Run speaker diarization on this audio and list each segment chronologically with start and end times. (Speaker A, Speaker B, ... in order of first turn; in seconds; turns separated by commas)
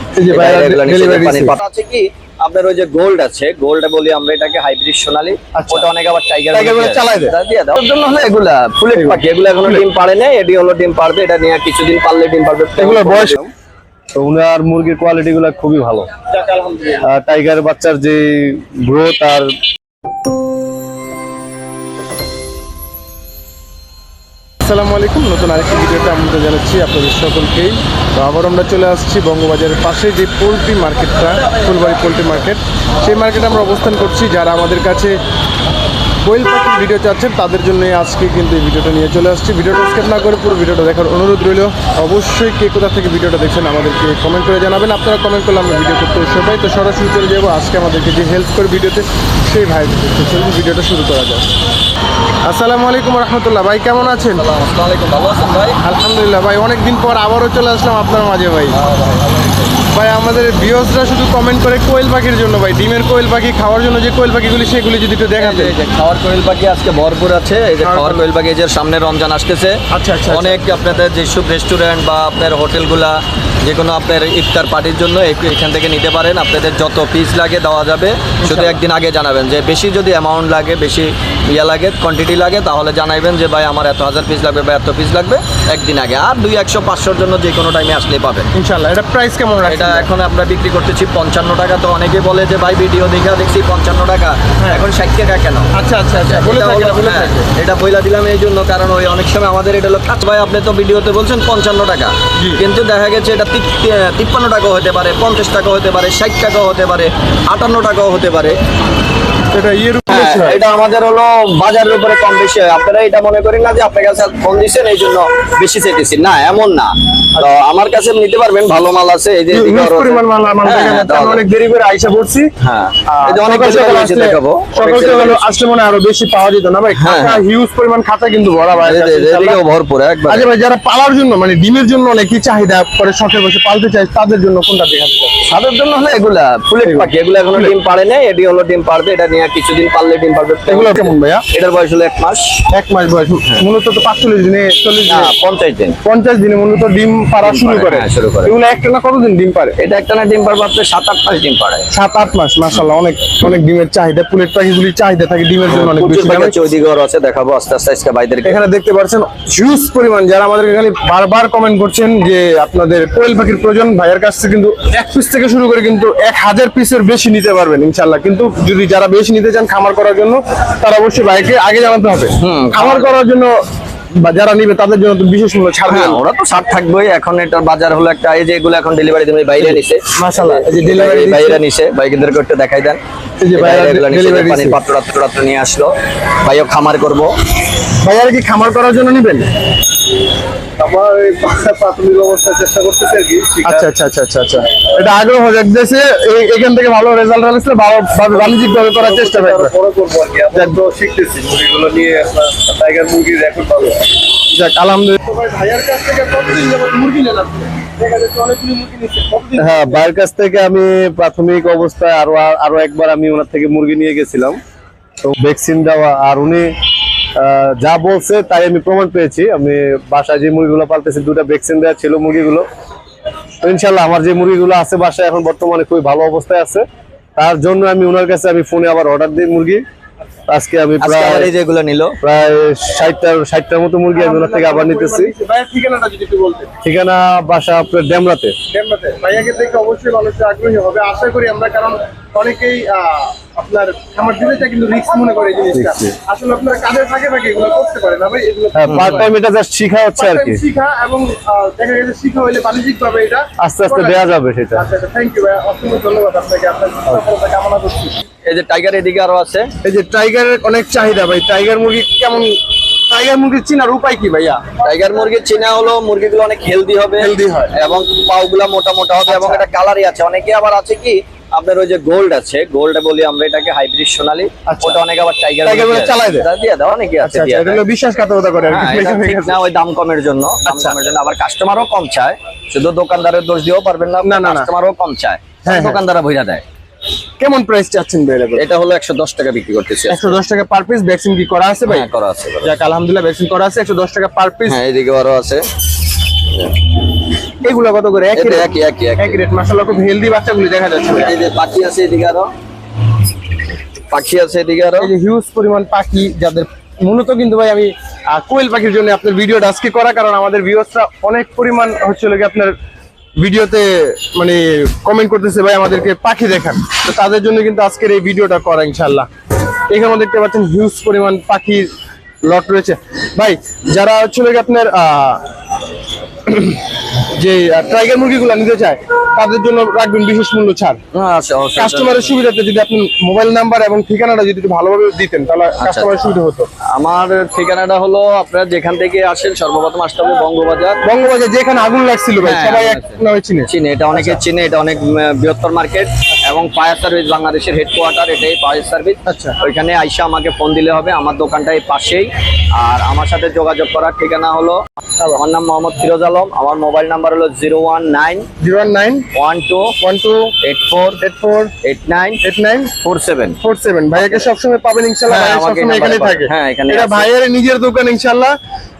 Speaker A: 0.2-1.6, Speaker B: 0.3-13.4, Speaker A: 5.5-5.9, Speaker A: 6.5-7.3, Speaker A: 8.9-9.8, Speaker A: 12.8-13.5, Speaker C: 14.2-16.1, Speaker A: 16.3-17.1, Speaker C: 17.0-19.5, Speaker A: 24.6-35.2, Speaker A: 36.2-51.5, Speaker A: 52.4-54.4, Speaker B: 54.0-55.8, Speaker A: 55.8-58.8, Speaker B: 58.7-59.7, Speaker A: 59.9-65.7, Speaker B: 65.4-88.5, Speaker A: 67.8-68.2, Speaker A: 69.9-70.6, Speaker A: 78.4-78.8, Speaker A: 88.5-90.1, Speaker B: 89.7-108.6, Speaker A: 94.6-94.9, Speaker A: 95.7-97.5, Speaker A: 102.4-102.6, Speaker A: 109.5-110.6, Speaker B: 110.1-121.4, Speaker A: 119.5-122.5, Speaker B: 122.6-125.5, Speaker A: 123.1-129.6, Speaker B: 127.0-127.4, Speaker B: 128.8-130.5, Speaker A: 130.3-135.4, Speaker B: 135.5-142.5, Speaker A: 136.8-137.8, Speaker A: 140.7-141.4, Speaker A: 142.7-145.3, Speaker B: 145.1-146.0, Speaker A: 146.0-149.8, Speaker B: 147.4-148.5, Speaker B: 149.8-151.9, Speaker A: 151.9-156.5, Speaker B: 155.7-158.6, Speaker A: 158.4-173.5, Speaker B: 172.4-173.1, Speaker A: 174.2-176.2, Speaker B: 175.9-183.0, Speaker A: 179.6-181.6, Speaker A: 183.4-184.8, Speaker B: 183.5-187.3, Speaker A: 188.0-189.5, Speaker C: 190.8-193.8, Speaker A: 193.6-199.7, Speaker C: 199.1-203.9, Speaker A: 200.5-200.8, Speaker B: 203.0-203.7, Speaker A: 204.5-210.0, Speaker C: 209.6-214.6, Speaker C: 215.2-216.7, Speaker C: 217.3-222.7, Speaker C: 223.6-226.8, Speaker C: 227.4-229.8, Speaker C: 230.5-231.5, Speaker B: 231.0-232.2, Speaker C: 232.2-235.3, Speaker A: 234.2-236.7, Speaker C: 236.8-238.6, Speaker A: 238.7-249.3, Speaker C: 245.7-246.1, Speaker C: 248.8-250.6, Speaker B: 248.9-249.2, Speaker A: 250.2-254.2, Speaker C: 253.6-254.8, Speaker A: 254.7-258.2, Speaker B: 258.4-259.7, Speaker A: 259.8-265.4, Speaker B: 264.8-277.8, Speaker A: 267.2-267.7, Speaker A: 269.2-269.6, Speaker A: 274.7-275.0, Speaker A: 275.6-276.5, Speaker A: 277.2-279.6, Speaker B: 278.7-286.6, Speaker A: 280.7-281.0, Speaker A: 284.2-284.7, Speaker A: 285.6-286.0, Speaker A: 287.4-288.6, Speaker B: 288.6-290.4, Speaker A: 290.1-292.1, Speaker B: 291.9-292.7, Speaker A: 292.6-294.8, Speaker B: 294.7-295.6, Speaker A: 297.6-301.4, Speaker B: 298.3-299.4, Speaker B: 301.2-302.5, Speaker B: 304.1-305.1, Speaker A: 305.0-312.8, Speaker A: 313.4-319.3, Speaker A: 319.9-321.9, Speaker A: 322.4-325.4, Speaker A: 326.5-331.0, Speaker B: 331.1-332.4, Speaker A: 331.8-336.7, Speaker B: 335.8-336.1, Speaker B: 336.9-341.0, Speaker A: 341.0-344.4, Speaker B: 342.4-343.2, Speaker B: 343.7-354.8, Speaker A: 349.2-349.6, Speaker B: 355.3-358.5, Speaker A: 358.6-359.3, Speaker B: 359.3-359.9, Speaker A: 360.0-360.5, Speaker B: 360.6-361.2, Speaker A: 361.2-361.7, Speaker B: 361.8-362.4, Speaker A: 362.4-362.9, Speaker B: 363.0-363.6, Speaker A: 363.6-368.6, Speaker B: 364.2-364.5, Speaker B: 365.3-367.3